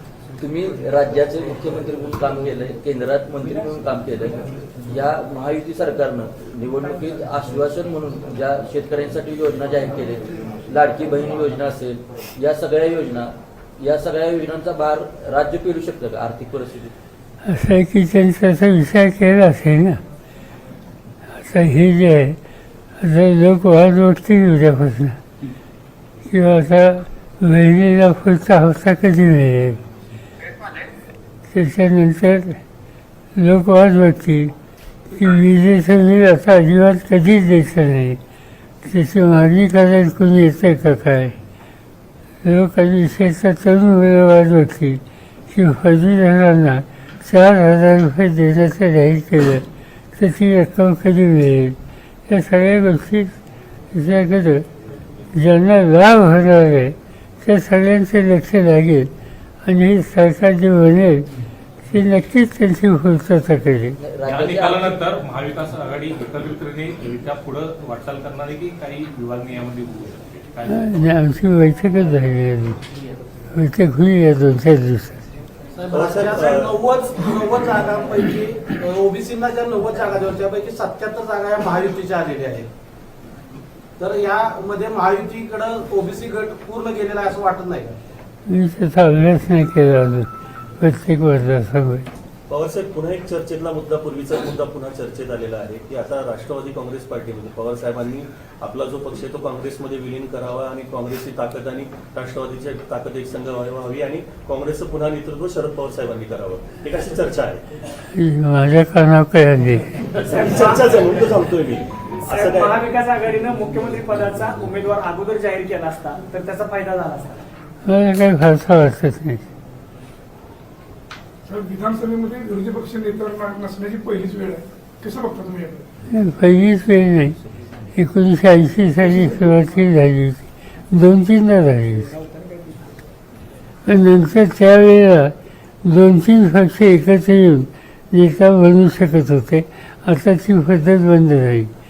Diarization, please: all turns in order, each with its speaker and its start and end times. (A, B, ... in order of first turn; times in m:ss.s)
0:00.4-0:16.9 A
0:17.4-0:20.0 B
0:21.3-0:22.4 B
0:23.0-0:25.2 B
0:26.3-0:29.8 B
0:31.5-0:32.6 B
0:33.4-0:34.5 B
0:35.1-0:38.2 B
0:38.8-0:41.4 B
0:42.4-0:53.4 B
0:53.9-0:54.7 B
0:55.3-0:59.1 B
0:59.6-1:01.3 B
1:01.8-1:04.0 B
1:04.0-1:05.0 A
1:04.2-1:10.9 C
1:10.7-1:12.8 B
1:13.5-1:15.2 B
1:15.9-1:16.2 D
1:15.9-1:16.8 E
1:15.9-1:22.7 F
1:24.0-1:27.9 F
1:28.5-1:32.1 B
1:32.5-1:47.6 E
1:48.1-1:50.0 B
1:50.1-1:52.8 E
1:50.3-1:51.3 D
1:52.3-1:57.4 D
1:57.9-1:59.5 B
2:01.5-2:05.9 G
2:06.1-2:07.4 B
2:07.9-2:12.1 B
2:13.8-2:21.7 B